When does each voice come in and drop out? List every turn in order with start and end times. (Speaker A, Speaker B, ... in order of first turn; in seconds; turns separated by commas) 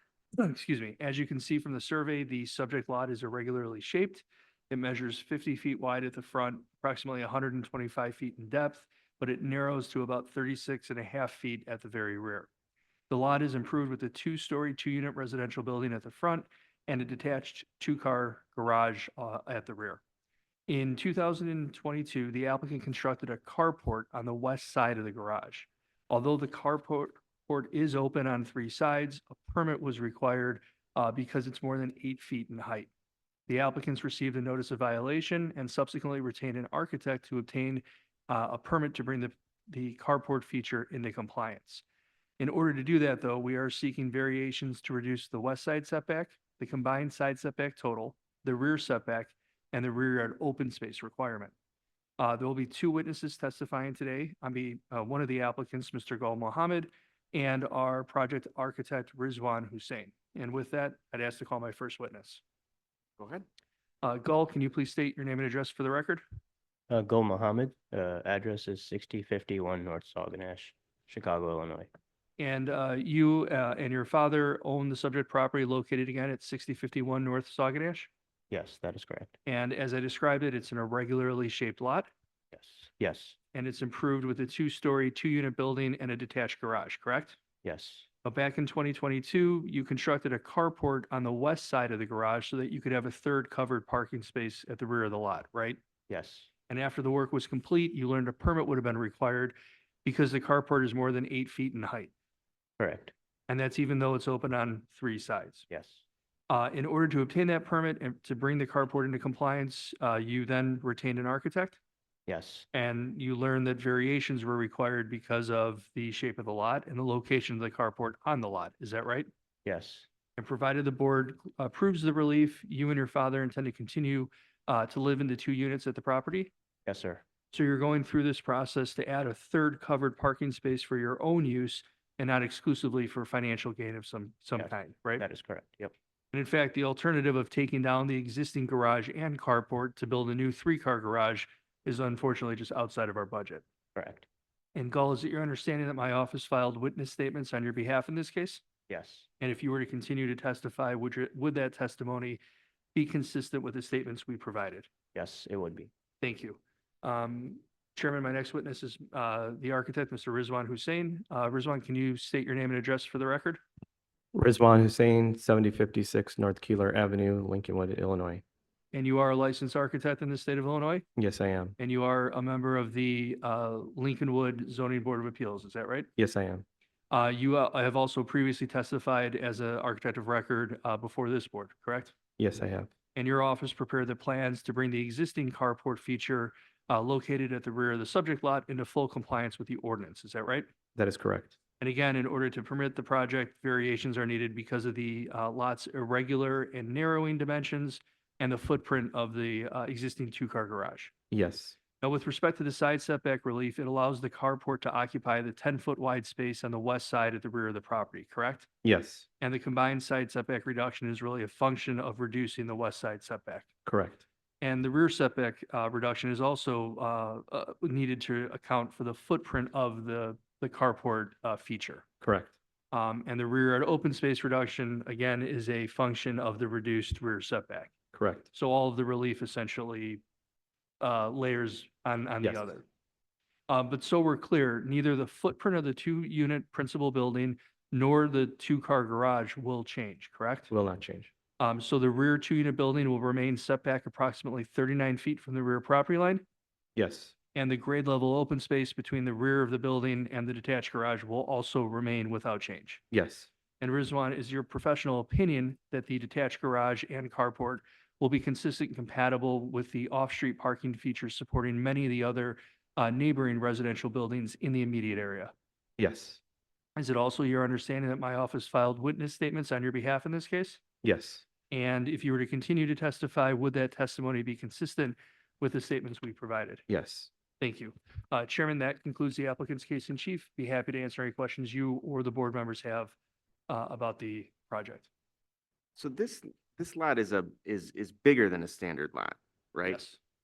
Speaker A: 0.3-12.5, Speaker A: 13.1-20.0, Speaker A: 20.7-32.9, Speaker A: 33.5-41.8, Speaker A: 42.4-51.5, Speaker A: 52.2-62.4, Speaker B: 63.2-63.4, Speaker A: 64.0-66.2, Speaker C: 66.9-71.9, Speaker A: 72.4-78.1, Speaker C: 78.5-79.3, Speaker A: 79.5-82.1, Speaker C: 82.5-83.4, Speaker A: 83.5-87.4, Speaker C: 87.6-88.1, Speaker A: 88.2-95.8, Speaker C: 96.1-96.5, Speaker A: 96.7-102.1, Speaker C: 102.8-103.1, Speaker A: 103.5-105.7, Speaker C: 105.7-106.0, Speaker A: 106.5-111.8, Speaker C: 112.3-112.7, Speaker A: 112.7-119.3, Speaker C: 119.7-120.1, Speaker A: 120.4-126.5, Speaker C: 126.9-127.2, Speaker A: 127.5-135.2, Speaker C: 134.6-135.9, Speaker A: 136.3-143.6, Speaker C: 143.9-144.3, Speaker A: 144.8-148.6, Speaker C: 148.9-149.3, Speaker A: 149.4-152.4, Speaker A: 152.9-154.9, Speaker C: 155.2-155.9, Speaker A: 156.2-163.6, Speaker D: 164.3-168.4, Speaker A: 168.9-171.1, Speaker D: 171.2-171.8, Speaker A: 171.8-176.1, Speaker D: 176.2-176.7, Speaker A: 177.1-182.2, Speaker D: 182.4-182.9, Speaker A: 183.2-190.7, Speaker D: 191.0-191.6, Speaker A: 191.8-201.1, Speaker D: 201.3-201.8, Speaker A: 202.0-208.7, Speaker D: 208.8-209.3, Speaker A: 209.4-213.7, Speaker D: 213.8-214.2, Speaker A: 214.6-222.0, Speaker D: 222.2-222.5, Speaker A: 222.9-227.9, Speaker D: 228.1-228.5, Speaker A: 228.5-230.2, Speaker A: 231.0-232.8, Speaker D: 232.4-232.7, Speaker A: 233.7-240.7, Speaker D: 240.7-241.3, Speaker A: 241.6-246.4, Speaker D: 247.0-247.3, Speaker A: 247.6-253.0, Speaker D: 253.1-253.5, Speaker A: 253.8-265.5, Speaker D: 266.0-266.4, Speaker A: 267.0-270.8, Speaker D: 271.0-271.4, Speaker A: 271.7-276.8, Speaker D: 276.9-277.3, Speaker A: 277.6-283.1, Speaker A: 283.7-285.1, Speaker B: 286.0-290.0, Speaker A: 289.9-290.2